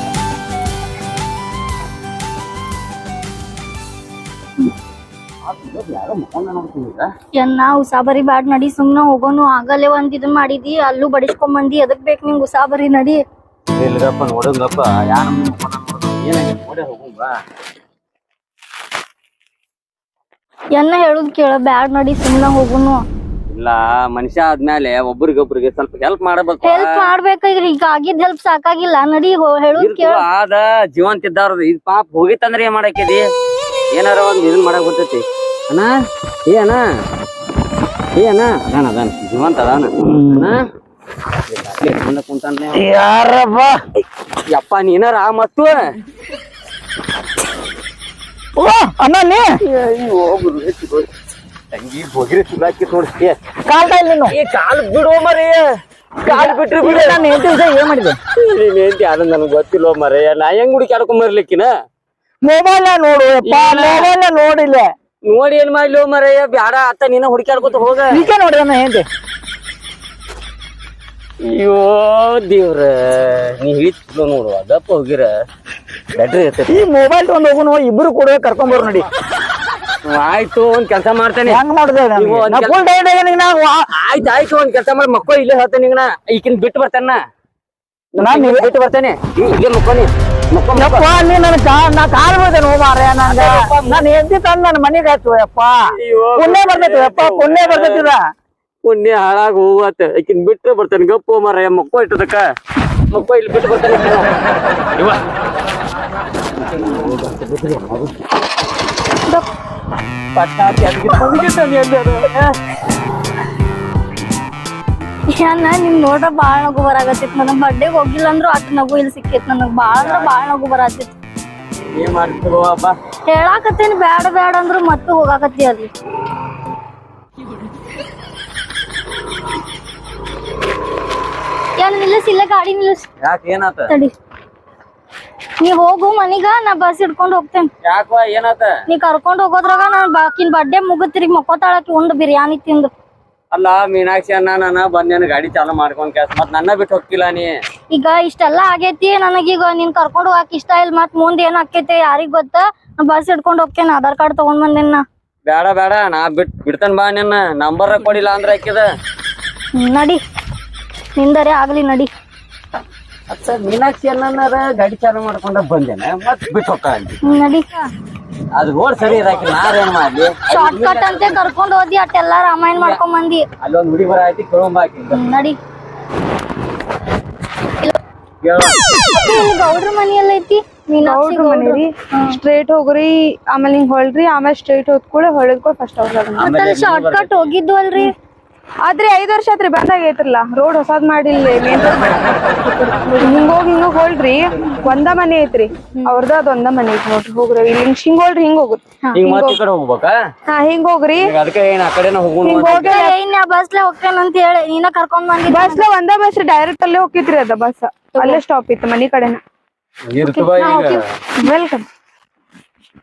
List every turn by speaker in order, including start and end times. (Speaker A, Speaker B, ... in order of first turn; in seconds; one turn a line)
Speaker A: 5.4-7.1
Speaker B: 7.4-13.2
Speaker A: 13.7-17.3
Speaker B: 20.7-23.0
Speaker A: 23.5-27.1
Speaker B: 26.6-30.2
Speaker A: 29.8-33.2
Speaker A: 34.0-35.9
Speaker A: 36.5-36.8
Speaker A: 38.2-40.6
Speaker C: 40.0-40.5
Speaker A: 41.5-42.9
Speaker C: 42.7-43.8
Speaker A: 44.5-45.8
Speaker C: 48.6-49.5
Speaker A: 49.6-51.1
Speaker A: 51.7-53.4
Speaker C: 53.7-54.4
Speaker A: 54.3-55.6
Speaker A: 56.2-57.2
Speaker C: 56.3-58.2
Speaker A: 58.4-61.7
Speaker C: 62.5-64.9
Speaker A: 63.4-64.1
Speaker A: 65.3-68.2
Speaker C: 68.1-69.0
Speaker A: 71.5-75.3
Speaker A: 76.2-76.8
Speaker C: 76.7-79.1
Speaker A: 80.1-81.6
Speaker C: 81.5-83.8
Speaker A: 82.2-82.8
Speaker A: 83.9-87.2
Speaker A: 88.1-91.1
Speaker C: 88.2-88.7
Speaker C: 90.7-95.7
Speaker A: 93.2-94.1
Speaker A: 96.0-98.0
Speaker C: 96.3-98.2
Speaker A: 98.8-102.4
Speaker A: 103.1-104.3
Speaker A: 106.7-108.1
Speaker A: 110.3-112.5
Speaker B: 115.3-121.1
Speaker A: 120.0-120.3
Speaker A: 121.9-122.9
Speaker B: 123.3-125.9
Speaker B: 131.8-133.1
Speaker A: 133.2-133.9
Speaker B: 133.9-134.1
Speaker B: 135.6-137.7
Speaker A: 137.8-138.7
Speaker B: 138.9-142.9
Speaker A: 143.5-147.5
Speaker B: 147.9-155.0
Speaker A: 155.5-158.8
Speaker B: 159.8-160.2
Speaker B: 161.2-162.1
Speaker A: 163.3-167.2
Speaker B: 167.2-167.9
Speaker A: 168.5-171.4
Speaker B: 170.5-173.4
Speaker A: 173.6-175.3
Speaker B: 175.1-175.6
Speaker A: 178.4-178.8
Speaker B: 179.1-182.4
Speaker D: 181.0-186.6
Speaker A: 186.4-187.5
Speaker B: 186.4-188.1
Speaker D: 188.9-199.6
Speaker B: 193.2-193.5
Speaker A: 199.2-200.1
Speaker D: 200.5-201.3
Speaker A: 201.2-202.9
Speaker D: 202.4-203.2
Speaker B: 202.7-205.8
Speaker D: 205.5-209.4
Speaker A: 210.1-211.0
Speaker B: 210.2-211.0
Speaker D: 211.4-211.8